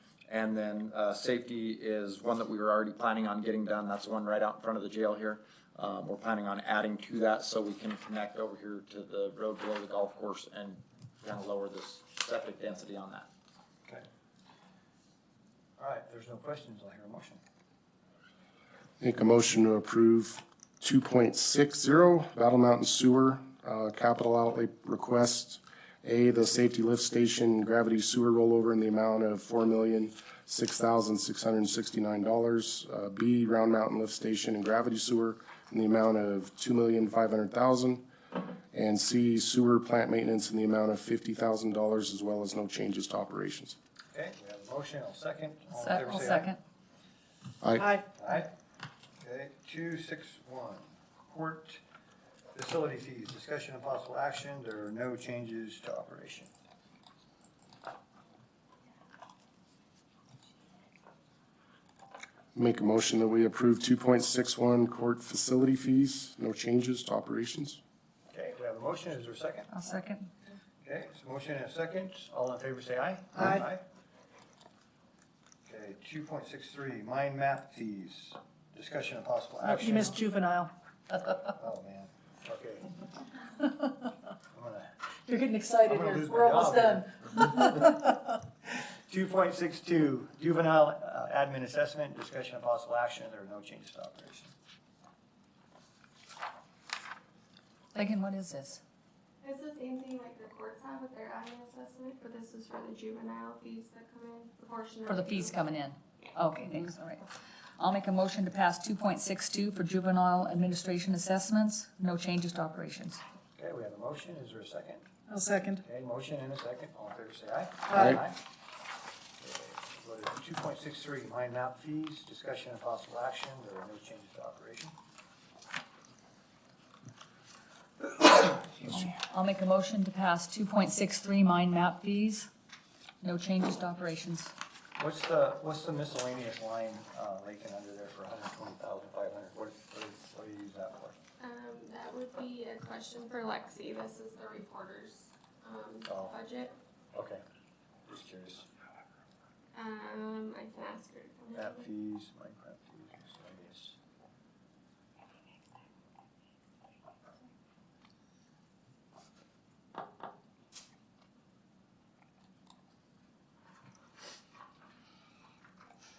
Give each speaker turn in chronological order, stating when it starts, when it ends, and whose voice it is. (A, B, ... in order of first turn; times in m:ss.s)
0:00.3-0:13.3 A
0:15.8-0:17.4 B
0:19.0-0:38.0 C
0:38.7-0:43.8 C
0:44.1-0:46.5 B
0:45.8-0:46.6 D
0:47.6-0:47.9 C
0:47.8-0:48.0 E
0:48.1-0:48.5 B
0:49.2-0:51.8 B
0:52.5-0:56.5 B
1:02.5-1:07.8 C
1:08.3-1:09.7 B
1:09.7-1:10.3 D
1:10.8-1:13.8 B
1:15.6-1:20.2 B
1:19.6-1:20.7 E
1:21.2-1:22.9 B
1:24.5-1:24.9 B
1:25.3-1:27.4 E
1:25.8-1:28.1 B
1:29.1-1:34.5 B
1:37.9-1:38.8 D
1:39.4-1:45.6 F
1:45.0-1:47.2 D
1:47.8-1:53.2 D
1:53.6-1:55.0 B
1:55.3-1:55.8 E
1:55.8-1:58.4 B
1:57.9-1:58.2 C
1:59.4-2:04.9 B
2:08.8-2:12.5 D
2:13.2-2:14.5 D
2:15.0-2:21.2 B
2:21.4-2:26.7 F
2:26.1-2:26.3 B
2:27.1-2:27.4 B
2:28.1-2:28.6 B
2:29.7-2:31.9 F
2:31.5-2:33.9 B